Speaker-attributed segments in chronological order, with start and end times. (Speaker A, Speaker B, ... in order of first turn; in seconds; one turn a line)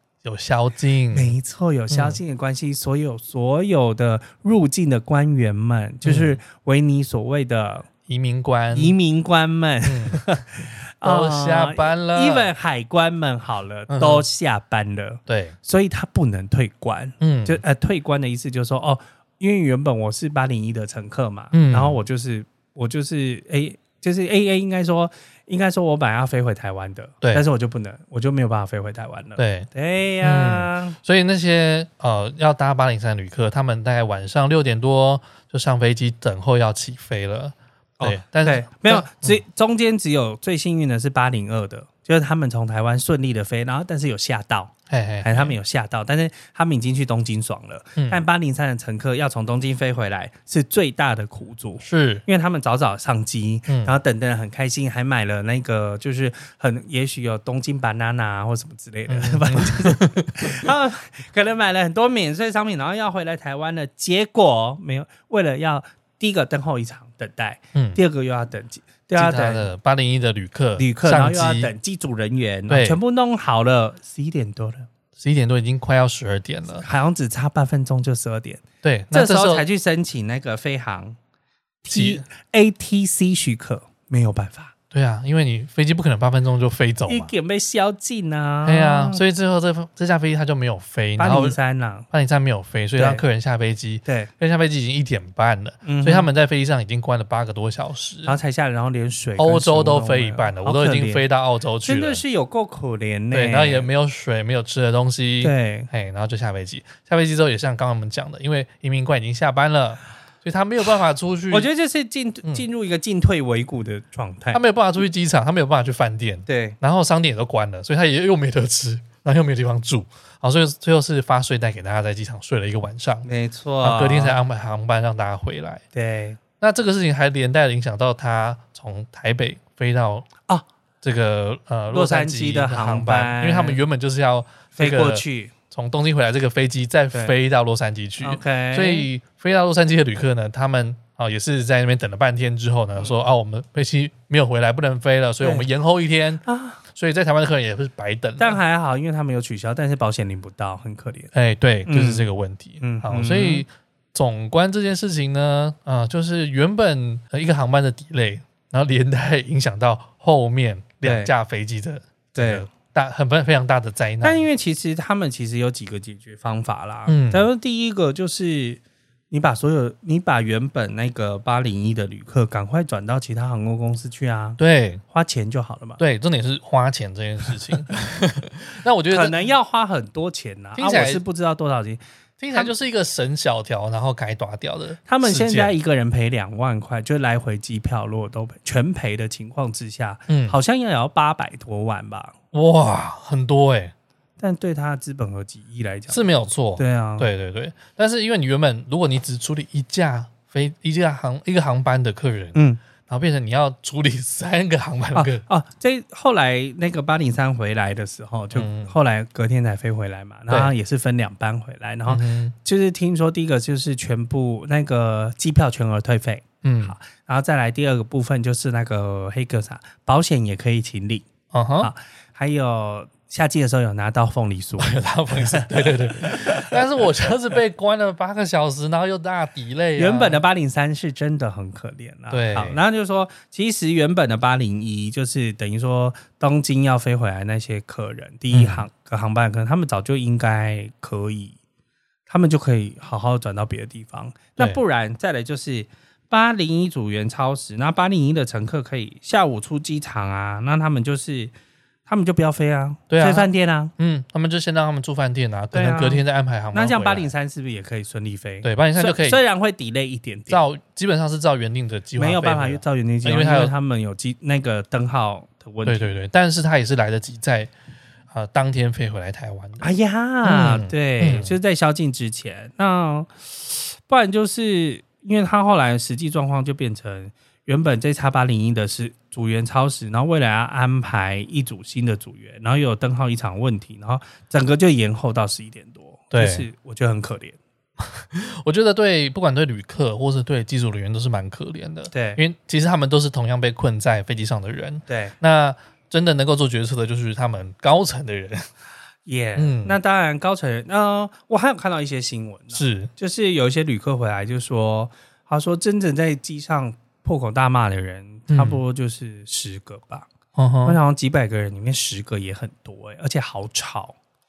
Speaker A: 0.2-1.4
Speaker B: 1.1-7.9
Speaker A: 1.9-2.2
Speaker A: 6.0-6.4
Speaker A: 8.1-8.9
Speaker B: 8.7-31.0
Speaker A: 9.8-10.2
Speaker A: 11.0-12.5
Speaker A: 13.9-14.2
Speaker A: 15.3-15.6
Speaker A: 17.2-17.6
Speaker A: 21.5-22.0
Speaker A: 29.4-29.7
Speaker A: 30.2-39.4
Speaker B: 38.0-69.7
Speaker A: 44.9-45.5
Speaker A: 48.0-48.2
Speaker A: 51.8-52.2
Speaker A: 53.7-53.9
Speaker A: 59.1-60.5
Speaker A: 67.7-68.0
Speaker A: 69.1-71.7
Speaker B: 70.8-74.9
Speaker A: 72.7-73.0
Speaker A: 75.2-76.8
Speaker B: 76.8-81.2
Speaker A: 78.8-79.6
Speaker B: 81.8-84.7
Speaker A: 81.9-82.2
Speaker A: 84.9-87.3
Speaker B: 87.1-89.2
Speaker A: 88.6-91.6
Speaker B: 91.2-92.1
Speaker A: 92.1-98.4
Speaker B: 93.0-93.2
Speaker B: 94.0-94.3
Speaker B: 95.8-96.3
Speaker B: 98.2-101.2
Speaker A: 99.4-102.2
Speaker B: 101.8-103.9
Speaker A: 103.3-111.7
Speaker B: 105.4-105.9
Speaker B: 111.5-114.6
Speaker A: 114.5-123.3
Speaker B: 116.5-116.8
Speaker B: 123.2-124.4
Speaker A: 123.8-125.8
Speaker B: 125.9-126.4
Speaker A: 126.6-130.3
Speaker A: 131.0-148.6
Speaker B: 131.9-133.8
Speaker B: 134.8-135.5
Speaker B: 138.2-139.1
Speaker B: 145.4-145.7
Speaker B: 146.4-146.8
Speaker B: 148.4-151.3
Speaker A: 151.3-164.4
Speaker B: 151.8-152.3
Speaker B: 152.8-153.6
Speaker B: 161.0-161.3
Speaker B: 162.3-162.7
Speaker B: 164.2-176.0
Speaker A: 167.1-167.5
Speaker A: 174.6-175.0
Speaker A: 176.0-179.3
Speaker B: 179.1-182.7
Speaker A: 180.8-181.2
Speaker A: 182.4-185.7
Speaker B: 185.1-192.3
Speaker A: 190.3-190.6
Speaker A: 192.5-193.9
Speaker B: 194.4-197.3
Speaker A: 196.1-205.4
Speaker B: 202.5-202.8
Speaker B: 205.1-221.3
Speaker A: 208.5-208.9
Speaker A: 212.1-212.5
Speaker A: 216.6-216.9
Speaker A: 221.5-221.9
Speaker B: 221.8-226.8
Speaker A: 224.8-230.4
Speaker B: 230.0-241.6
Speaker A: 232.3-232.8
Speaker A: 238.5-238.8
Speaker B: 242.3-251.5
Speaker B: 252.1-253.9
Speaker A: 253.1-257.3
Speaker B: 255.7-260.6
Speaker A: 258.6-259.4
Speaker A: 260.5-263.7
Speaker B: 262.2-266.1
Speaker A: 265.8-267.7
Speaker A: 268.3-269.9
Speaker B: 269.8-287.6
Speaker A: 270.4-271.6
Speaker A: 286.3-286.7
Speaker A: 288.0-298.7
Speaker B: 292.1-292.4
Speaker B: 295.1-295.4
Speaker B: 299.2-310.3
Speaker A: 299.6-300.0
Speaker A: 302.7-303.1
Speaker A: 308.5-308.8
Speaker A: 310.6-311.0
Speaker B: 310.8-314.1